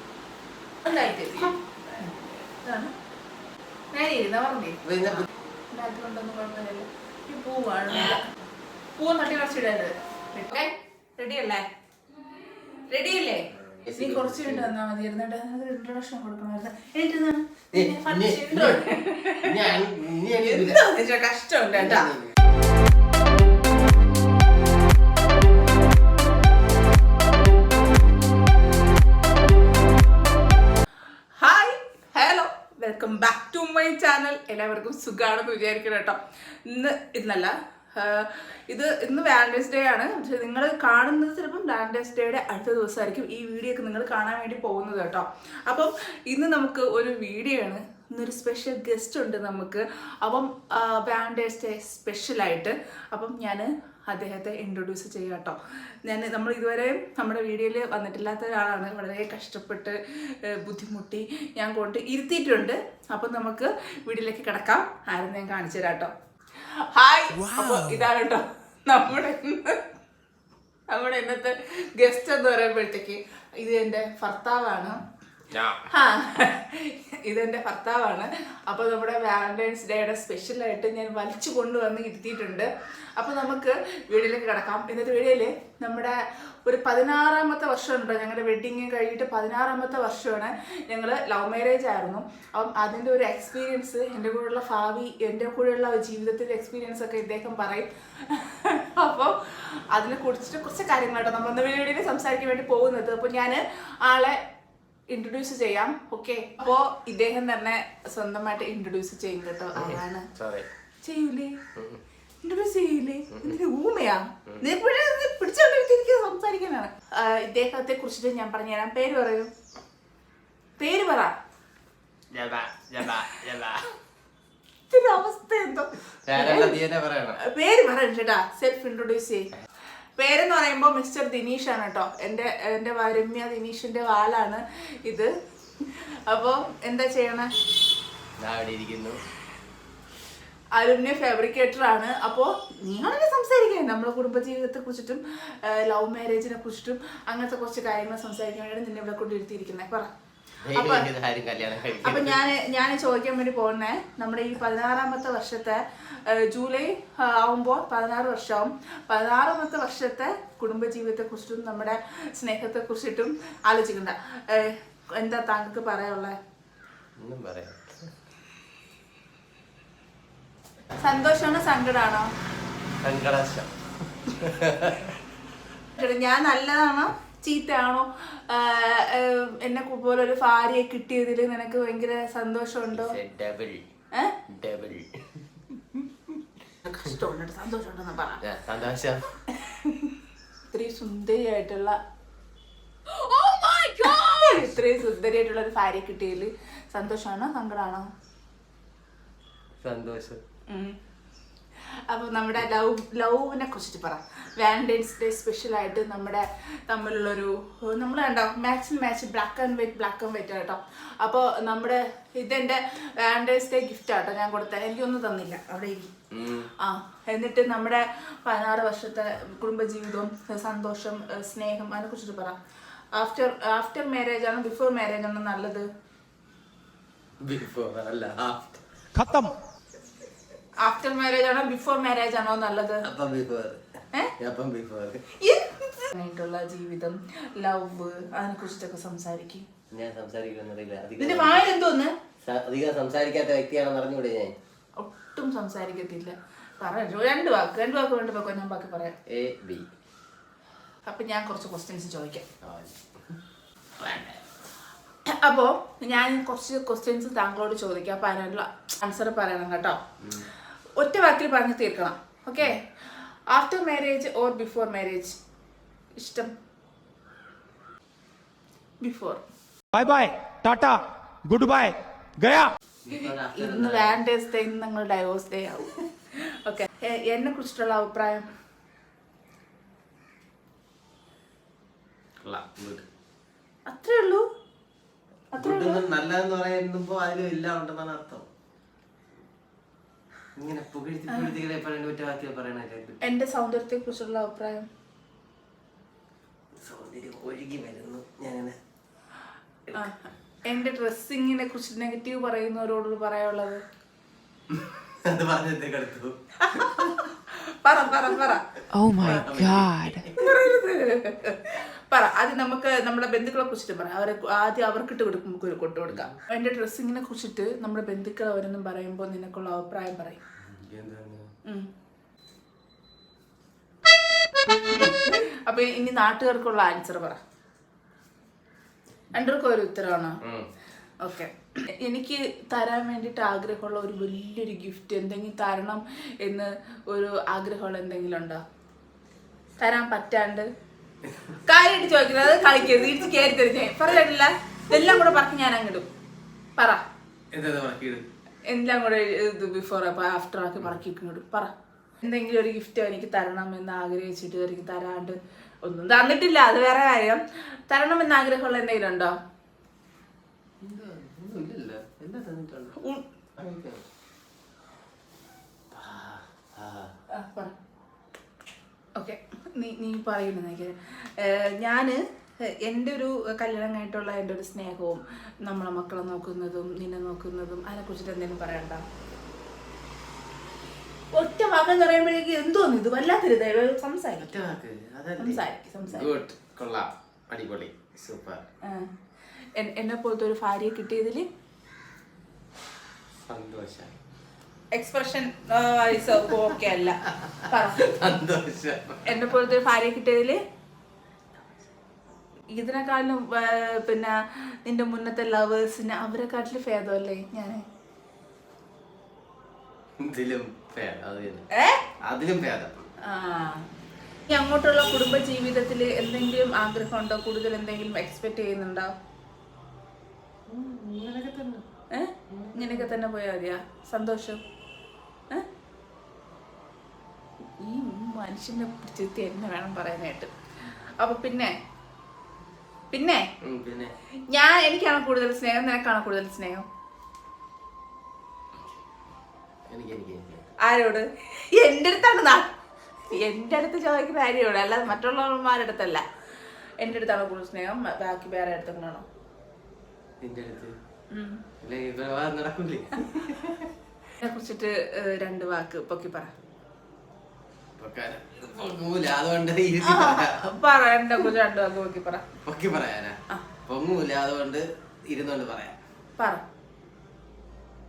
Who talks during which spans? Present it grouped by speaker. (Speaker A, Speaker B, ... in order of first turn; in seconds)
Speaker A: 0.8-2.9, 3.9-8.2, 8.9-11.7, 12.9-19.8, 20.4-22.1, 31.4-69.8, 70.9-75.0, 75.9-104.4, 105.1-110.3, 111.0-111.6, 112.4-119.5, 120.8-121.3, 124.9-126.8, 127.4-129.5, 130.2-135.3, 135.8-137.5, 140.8-150.1, 150.7-151.1, 152.0-166.3, 171.0-172.3, 176.0-183.2, 186.8-188.4, 189.5-190.2, 190.7-192.0, 193.1-198.1, 200.7-201.0, 202.1-216.1, 216.8-222.6, 223.1-225.8, 230.8-233.0, 235.4-239.7, 241.2-242.1, 245.0-249.2, 251.1-252.4, 255.3-260.0, 260.9-262.9, 263.5-265.4, 266.2-266.5, 269.0-269.4, 273.1-278.5, 283.9-284.4, 285.5-286.0, 291.3-291.6, 293.2-294.9, 299.9-303.8, 306.6-308.6, 310.3-320.4, 324.7-327.4, 329.3-330.4, 331.2-338.6, 339.8-340.7, 341.6-346.1, 348.7-351.7, 352.2-359.3, 367.3-367.7, 369.2-372.2, 372.7-379.0, 381.3-384.6, 385.4-386.4, 388.8-389.1, 389.8-391.4, 394.9-398.1, 399.2-400.6, 402.7-407.8, 411.7-412.0, 413.2-413.9, 414.5-419.1, 422.1-424.6, 427.8-431.7, 433.1-433.4, 434.5-436.8, 440.8-442.7, 443.3-446.2, 447.0-449.2, 451.3-451.6, 454.4-456.5, 460.0-462.4, 466.4-466.6
Speaker B: 4.8-5.3, 13.8-14.7, 17.7-20.8, 21.7-22.4, 75.5-75.8, 109.7-110.7, 113.3-113.6, 122.3-123.9, 126.2-127.4, 138.4-139.2, 150.6-152.4, 167.2-168.1, 173.0-175.2, 182.9-183.8, 184.5-186.4, 188.4-189.4, 199.8-200.4, 216.3-216.7, 227.4-228.8, 233.0-233.8, 234.4-235.2, 239.9-241.7, 242.4-244.5, 249.3-249.9, 252.6-253.4, 254.0-254.4, 260.2-260.5, 273.0-274.2, 282.4-283.0, 285.6-288.4, 290.6-293.2, 296.8-298.8, 304.7-307.1, 309.2-310.6, 316.1-316.3, 320.6-321.5, 330.4-330.7, 341.2-341.6, 344.9-345.1, 347.5-348.2, 360.8-363.0, 363.6-364.0, 365.9-367.1, 384.4-388.6, 393.5-394.1, 396.3-399.6, 410.2-411.7, 412.2-413.0, 420.7-421.8, 422.5-423.2, 433.6-434.1, 439.9-440.7, 450.4-450.9, 451.8-453.9, 458.0-460.7, 462.6-466.0
Speaker C: 229.2-229.5, 269.9-272.7, 308.9-310.3